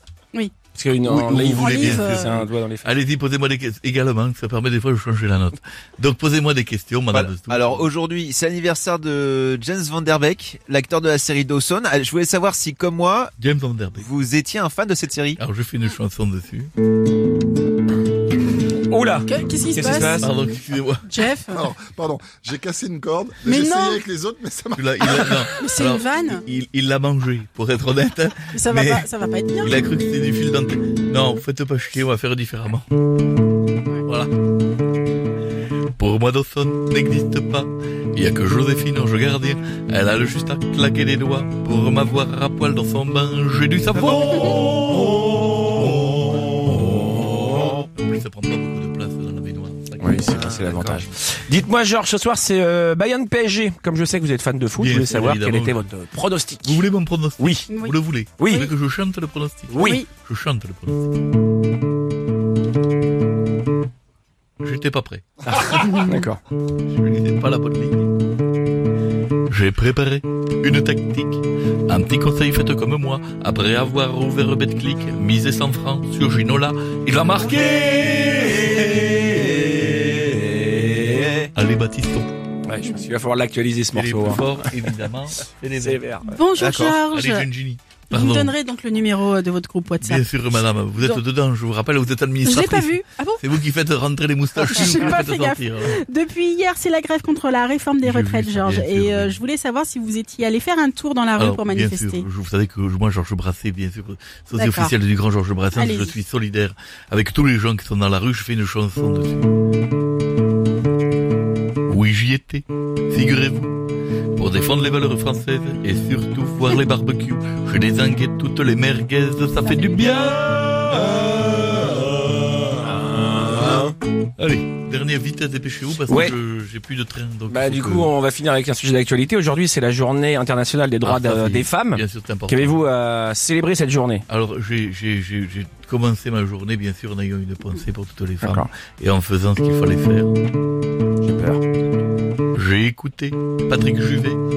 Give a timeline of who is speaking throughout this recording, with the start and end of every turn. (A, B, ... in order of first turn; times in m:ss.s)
0:00.7-0:03.0 A
0:01.0-0:07.9 B
0:01.6-0:02.3 C
0:07.1-0:13.3 D
0:13.4-0:14.1 B
0:14.0-0:15.4 D
0:15.4-0:16.7 B
0:18.9-0:20.3 A
0:19.3-0:20.3 C
0:20.2-0:21.1 B
0:21.1-0:21.6 C
0:21.5-0:25.4 E
0:23.4-0:24.0 C
0:24.8-0:32.9 B
0:25.5-0:26.4 C
0:28.4-0:29.8 C
0:34.1-0:34.3 B
0:36.0-0:51.0 B
0:44.3-0:44.6 C
0:50.0-0:56.8 A
0:50.3-0:51.0 D
0:54.8-0:55.9 B
0:56.6-1:01.1 B
0:57.4-0:57.7 A
0:57.7-0:58.7 C
0:58.4-0:58.7 A
0:59.7-1:00.0 A
0:59.8-1:00.1 C
1:04.6-1:06.1 B
1:05.4-1:06.4 A
1:05.9-1:06.1 C
1:06.9-1:08.1 B
1:09.5-1:19.4 B
1:19.3-1:21.3 A
1:21.6-1:22.3 B
1:22.6-1:25.1 A
1:23.9-1:26.0 B
1:25.7-1:26.4 A
1:26.3-1:27.5 C
1:26.6-1:27.0 D
1:26.8-1:28.6 B
1:28.1-1:30.4 C
1:30.0-1:36.0 B
1:31.0-1:31.2 C
1:32.4-1:33.4 C
1:34.6-1:42.3 C
1:34.8-1:35.2 A
1:38.0-1:39.4 B
1:41.4-1:49.5 B
1:44.6-1:44.9 C
1:45.7-1:46.2 C
1:51.9-1:53.8 B
1:54.4-2:01.2 B
1:59.6-2:00.3 C
2:03.2-2:03.9 A
2:04.4-2:08.1 B
2:06.1-2:06.4 A
2:07.5-2:14.2 A
2:11.0-2:12.8 B
2:14.3-2:20.3 B
2:18.4-2:18.7 A
2:21.2-2:21.6 A
2:22.5-2:24.4 B